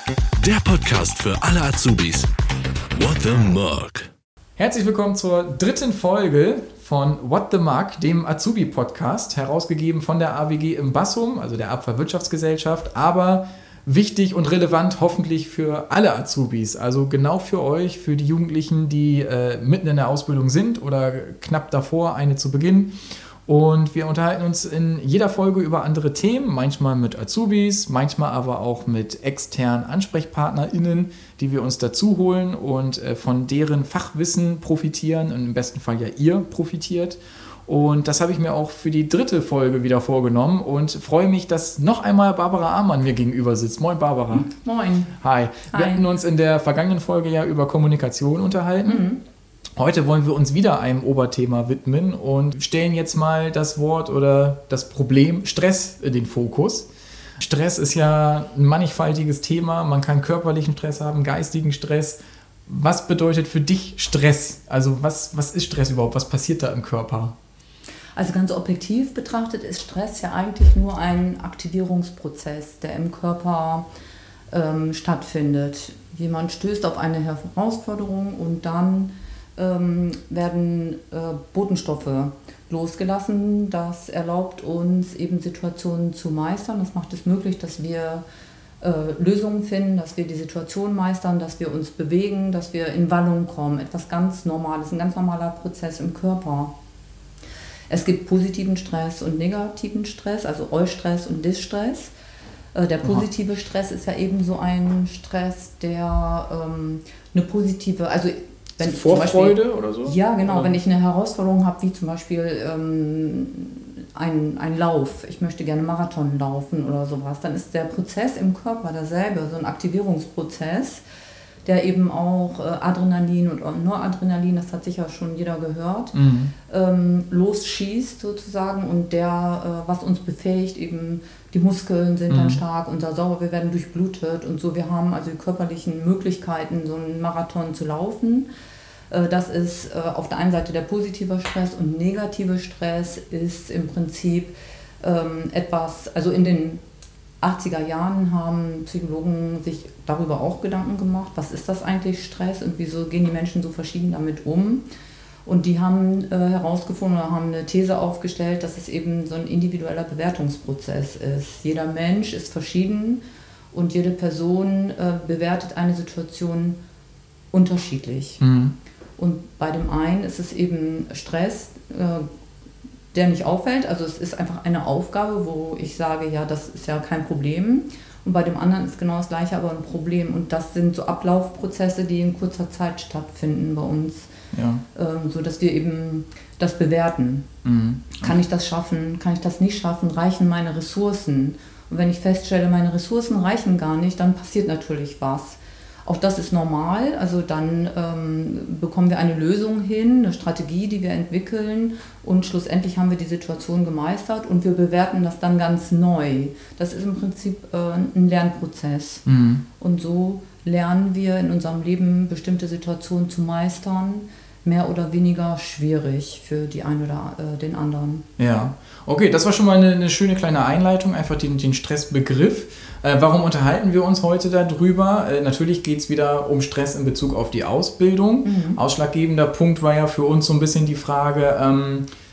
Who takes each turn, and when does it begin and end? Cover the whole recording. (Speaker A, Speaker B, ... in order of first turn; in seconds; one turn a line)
Speaker A: 0.4-2.3
Speaker A: 2.9-4.1
Speaker B: 4.6-44.5
Speaker C: 44.3-45.1
Speaker B: 45.2-49.0
Speaker C: 45.7-46.0
Speaker C: 48.8-49.2
Speaker B: 49.8-56.9
Speaker B: 57.4-67.3
Speaker C: 68.2-73.8
Speaker C: 74.5-88.2
Speaker C: 88.8-96.7
Speaker C: 97.9-102.1
Speaker C: 102.7-121.0
Speaker B: 108.8-110.7
Speaker C: 121.6-126.1
Speaker B: 126.1-126.5
Speaker C: 126.7-138.5
Speaker B: 132.3-132.6
Speaker C: 139.1-146.8
Speaker C: 147.4-154.8
Speaker C: 155.4-166.8
Speaker C: 167.5-168.4
Speaker B: 168.4-168.7
Speaker C: 169.2-172.3
Speaker C: 173.1-184.3
Speaker B: 184.5-184.8
Speaker C: 184.9-187.5
Speaker B: 187.6-188.4
Speaker C: 188.2-209.2
Speaker B: 209.2-209.6
Speaker C: 209.8-218.2
Speaker B: 218.4-232.1
Speaker C: 228.4-228.8